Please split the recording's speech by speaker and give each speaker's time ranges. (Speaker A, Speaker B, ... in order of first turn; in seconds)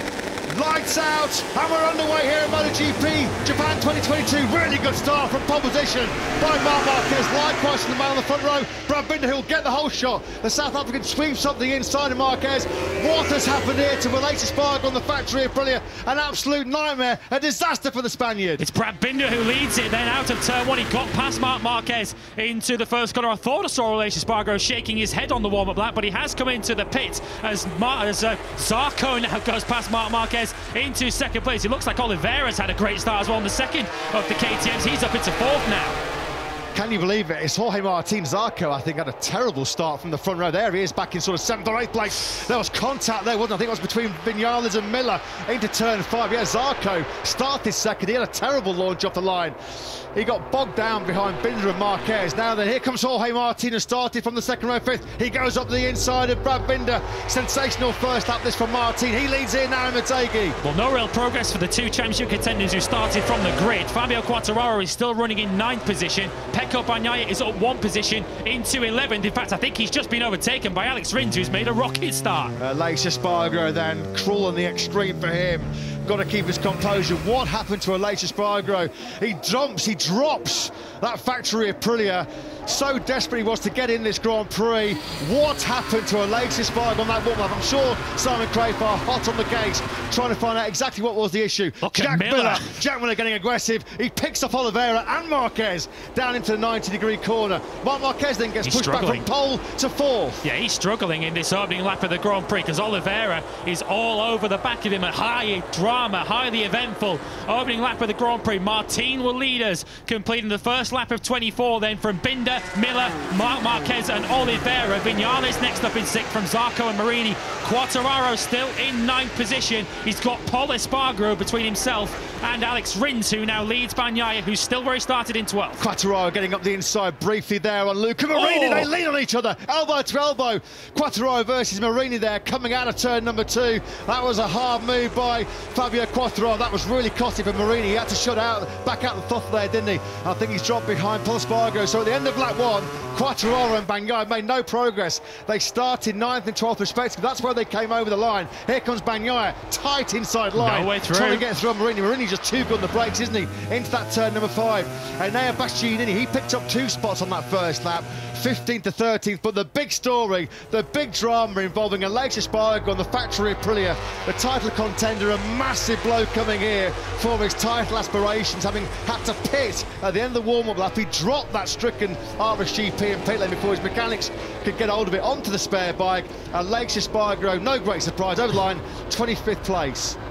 Speaker A: 0.5-18.6, 36.7-60.6, 72.6-100.4, 125.8-180.2
Speaker B: 18.6-36.0, 60.6-72.5, 91.8-92.8, 98.6-99.2, 100.4-125.8, 128.3-128.9, 150.6-151.4